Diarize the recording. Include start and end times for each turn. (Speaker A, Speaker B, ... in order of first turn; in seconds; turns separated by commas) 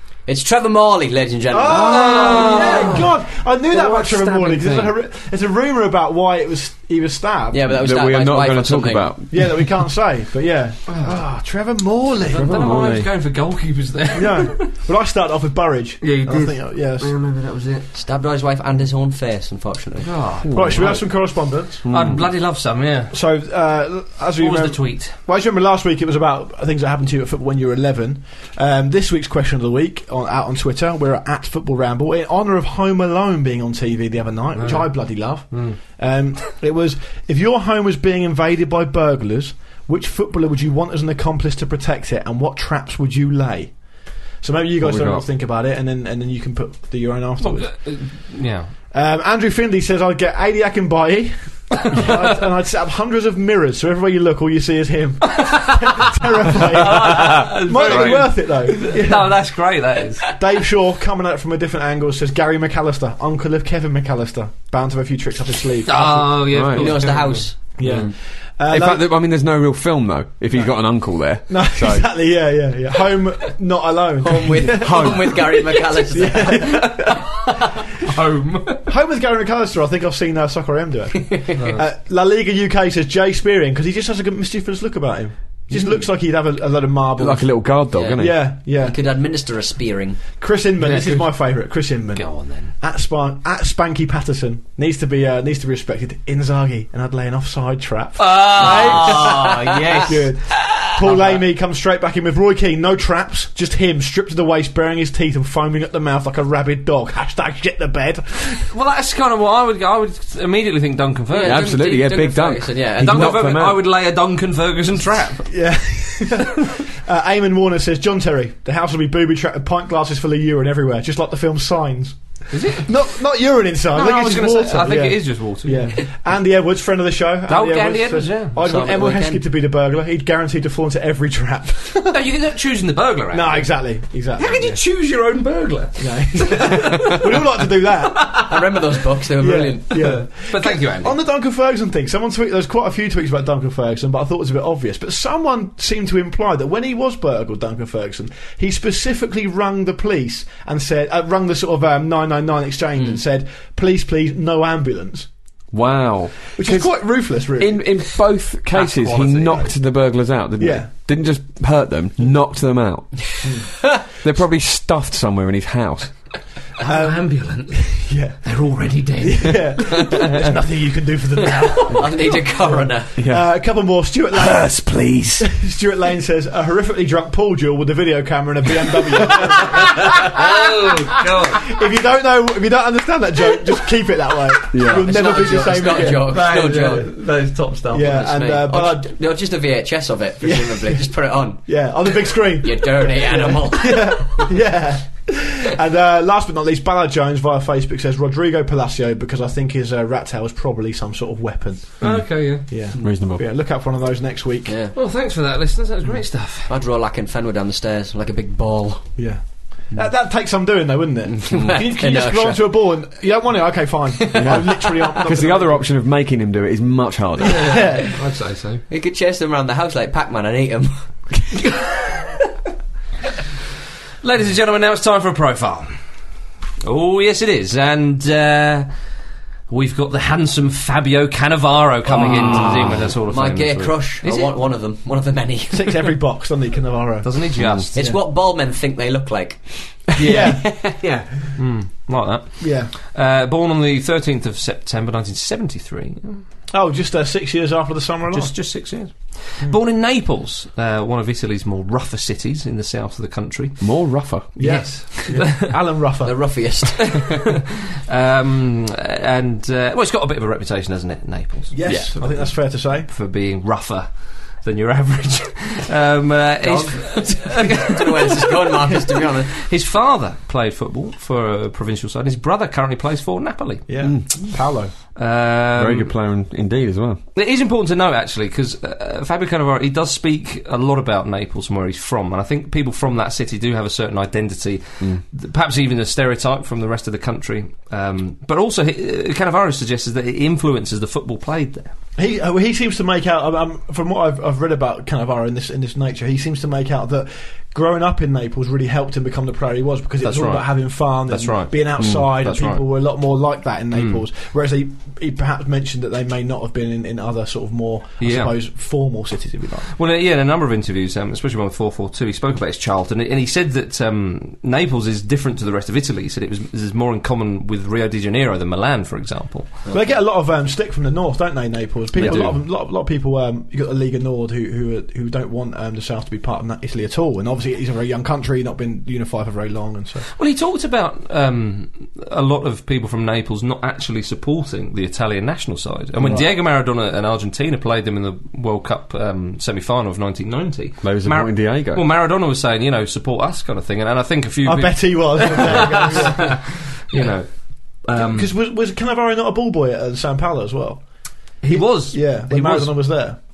Speaker A: 0.3-2.6, Speaker B: 1.5-7.7, Speaker C: 1.7-3.1, Speaker D: 2.1-2.7, Speaker C: 3.7-4.9, Speaker D: 4.6-4.9, Speaker A: 7.5-9.1, Speaker D: 7.8-9.8, Speaker B: 9.3-12.8, Speaker C: 10.9-11.2, Speaker C: 12.2-14.7, Speaker D: 12.3-13.1, Speaker B: 14.1-17.1, Speaker C: 16.0-17.9, Speaker A: 17.9-20.1, Speaker C: 20.0-21.1, Speaker D: 20.4-22.3, Speaker B: 20.5-21.9, Speaker C: 21.9-23.1, Speaker B: 23.1-48.2, Speaker C: 24.4-25.2, Speaker C: 34.6-35.8, Speaker D: 44.8-45.3, Speaker C: 47.4-48.7, Speaker B: 48.9-59.6, Speaker C: 55.4-55.8, Speaker C: 56.8-60.3, Speaker B: 60.3-66.5, Speaker C: 65.9-68.0, Speaker D: 66.5-68.1, Speaker A: 66.7-68.1, Speaker B: 67.8-69.1, Speaker D: 68.7-72.3, Speaker B: 71.5-75.3, Speaker A: 74.2-76.9, Speaker D: 74.7-75.5, Speaker B: 76.1-77.3, Speaker C: 76.7-78.9, Speaker B: 78.9-89.0, Speaker A: 81.3-81.7, Speaker C: 81.6-81.8, Speaker D: 87.2-88.5, Speaker A: 87.9-90.2, Speaker B: 90.4-108.7, Speaker C: 90.8-92.7, Speaker C: 98.2-101.4, Speaker A: 98.6-99.2, Speaker C: 108.7-111.8, Speaker A: 111.3-113.4, Speaker D: 111.4-113.8, Speaker C: 113.0-115.8, Speaker B: 115.5-132.2, Speaker C: 122.5-123.1, Speaker C: 123.9-126.1, Speaker C: 127.5-128.6, Speaker A: 128.6-129.4, Speaker C: 132.1-138.7, Speaker B: 133.3-134.8, Speaker B: 136.0-138.4, Speaker A: 138.3-140.1, Speaker B: 139.4-155.3, Speaker C: 139.9-141.2, Speaker D: 155.7-166.4, Speaker B: 156.6-158.0, Speaker C: 158.7-159.7, Speaker B: 160.6-160.9, Speaker B: 163.4-163.7, Speaker C: 166.8-170.3, Speaker B: 166.8-174.7, Speaker A: 171.9-173.1, Speaker D: 173.2-173.7, Speaker D: 174.3-175.5, Speaker B: 175.4-180.4, Speaker C: 179.3-181.8, Speaker B: 181.6-186.4, Speaker D: 184.7-185.1, Speaker A: 184.9-187.1, Speaker C: 185.4-188.2, Speaker B: 187.9-189.1, Speaker A: 188.0-194.5, Speaker B: 190.4-191.1, Speaker B: 191.6-204.8, Speaker C: 202.0-202.7, Speaker D: 202.0-203.4, Speaker A: 204.7-204.9, Speaker C: 204.9-206.7, Speaker A: 206.7-209.2, Speaker B: 209.2-215.9, Speaker A: 211.3-212.8, Speaker D: 214.3-217.9, Speaker B: 217.4-218.1, Speaker C: 217.4-218.8, Speaker A: 218.9-221.1, Speaker C: 221.8-222.3, Speaker C: 224.2-226.0, Speaker C: 226.8-228.9, Speaker C: 229.7-234.6, Speaker D: 232.2-233.1, Speaker A: 232.2-236.1, Speaker B: 235.7-238.2, Speaker C: 237.2-237.9, Speaker D: 237.6-237.9, Speaker A: 237.9-241.1, Speaker B: 240.2-240.9, Speaker C: 241.6-246.4, Speaker B: 242.6-242.9, Speaker B: 246.7-248.9, Speaker C: 248.3-255.7, Speaker D: 253.8-254.9, Speaker B: 254.6-256.7, Speaker A: 256.2-257.2, Speaker C: 258.1-268.7, Speaker B: 261.7-263.1, Speaker A: 266.6-269.5, Speaker C: 269.6-273.9, Speaker B: 273.9-274.9, Speaker D: 274.0-274.3, Speaker C: 275.2-276.1, Speaker D: 275.8-277.2, Speaker C: 277.4-291.9, Speaker B: 292.2-309.9, Speaker C: 300.2-302.8, Speaker D: 302.0-302.3, Speaker C: 303.9-304.2, Speaker C: 308.2-308.6, Speaker C: 309.9-319.8, Speaker A: 319.9-320.2, Speaker B: 319.9-330.3, Speaker D: 322.1-322.6, Speaker C: 322.2-322.6, Speaker C: 330.4-348.5, Speaker B: 336.2-336.5, Speaker D: 341.0-342.1, Speaker B: 344.6-347.3, Speaker B: 348.1-351.1, Speaker C: 351.6-353.0, Speaker B: 351.7-353.4